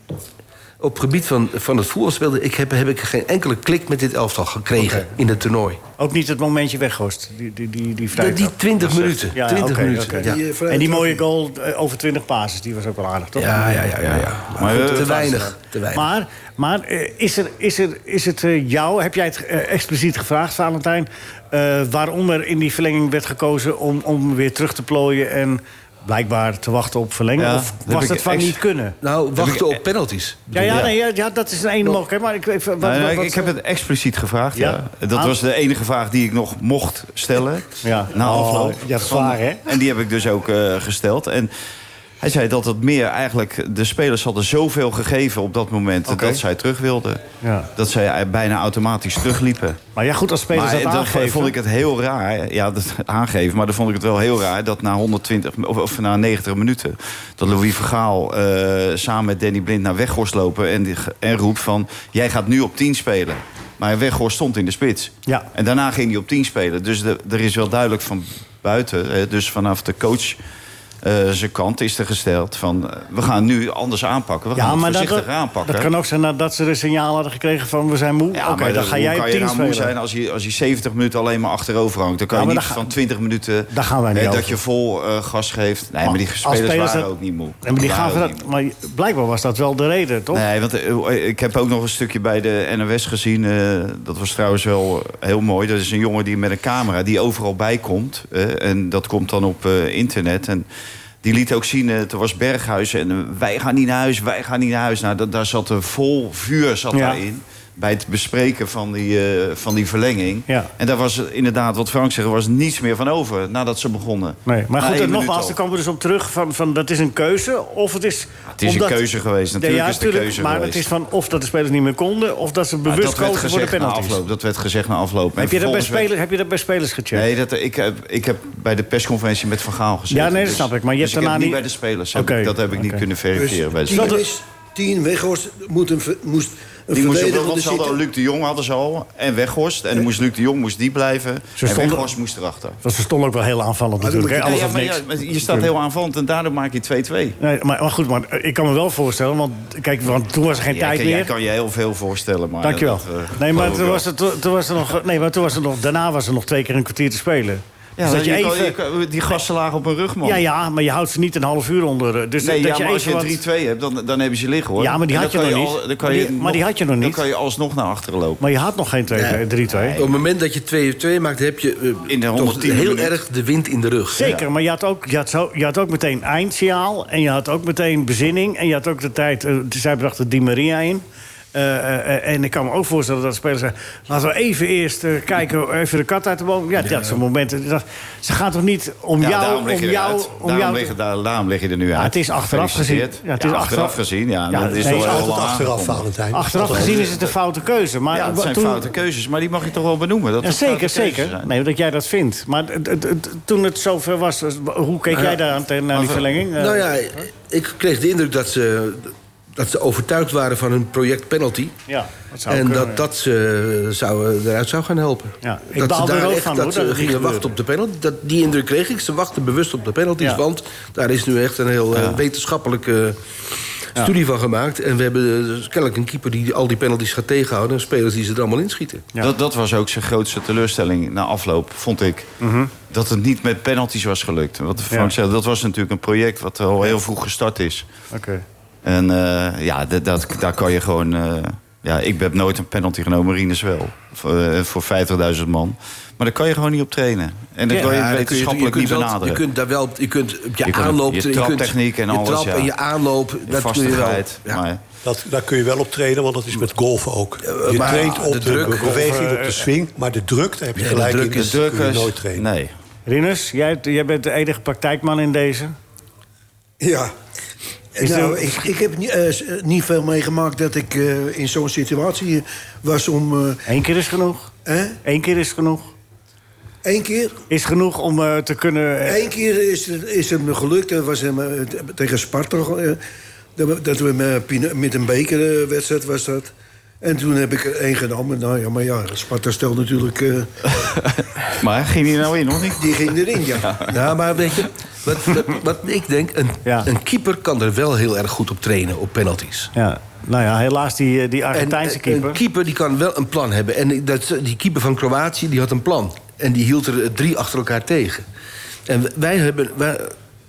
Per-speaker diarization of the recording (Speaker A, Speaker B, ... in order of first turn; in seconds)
Speaker A: 0.8-5.8, 8.2-10.5, 13.3-16.1, 29.0-30.9, 169.1-169.4, 169.9-174.3, 205.1-205.4, 206.5-211.8, 212.5-229.1, 247.7-254.6, 257.4-259.0, 260.8-261.6, 293.9-299.7, 301.5-308.2, 308.9-310.1
Speaker B: 6.0-8.5, 9.3-13.9, 14.7-15.0, 15.9-28.9, 30.5-33.5, 34.5-35.3, 37.8-39.7, 46.1-46.4, 47.4-47.7, 50.0-51.5, 74.5-79.9, 82.3-82.9, 83.7-84.6, 86.0-87.1, 87.6-90.4, 106.9-107.2, 114.5-119.0, 119.6-124.2, 125.4-127.3, 130.1-131.6, 132.1-133.0, 133.9-134.2, 141.6-142.1, 142.8-145.7, 147.4-151.3, 152.6-158.8, 160.2-163.4, 164.8-167.2, 168.4-170.0, 174.1-190.9, 191.9-195.3, 196.3-198.9, 200.4-206.9, 211.9-213.0, 215.4-217.5, 232.4-232.7, 238.1-238.4, 258.6-259.7, 263.1-265.7, 268.0-268.6, 273.6-274.5, 275.0-275.9, 277.5-279.2, 299.7-302.4
Speaker C: 8.8-9.3, 14.0-15.5, 27.4-28.6, 29.4-29.8, 30.6-30.9, 32.8-41.5, 42.2-47.2, 47.8-49.8, 50.5-70.4, 71.0-75.9, 78.3-88.4, 90.3-100.7, 101.2-115.6, 118.6-120.8, 122.8-126.1, 127.1-134.2, 136.9-142.8, 144.3-147.4, 150.6-154.1, 158.0-160.4, 162.4-168.4, 169.7-170.2, 172.1-173.2, 174.2-174.5, 189.2-197.3, 198.1-201.5, 205.9-206.3, 221.9-222.2, 229.2-232.3, 232.9-237.9, 238.8-249.4, 250.6-252.7, 253.4-254.8, 261.4-262.7, 290.6-293.0, 293.6-293.9
Speaker D: 10.2-11.2, 133.3-138.0, 144.0-144.7, 266.8-267.1, 267.9-273.6, 274.6-275.0, 276.8-277.4, 279.1-283.0, 283.6-290.5, 292.8-293.8
Speaker E: 194.7-197.1, 255.0-262.5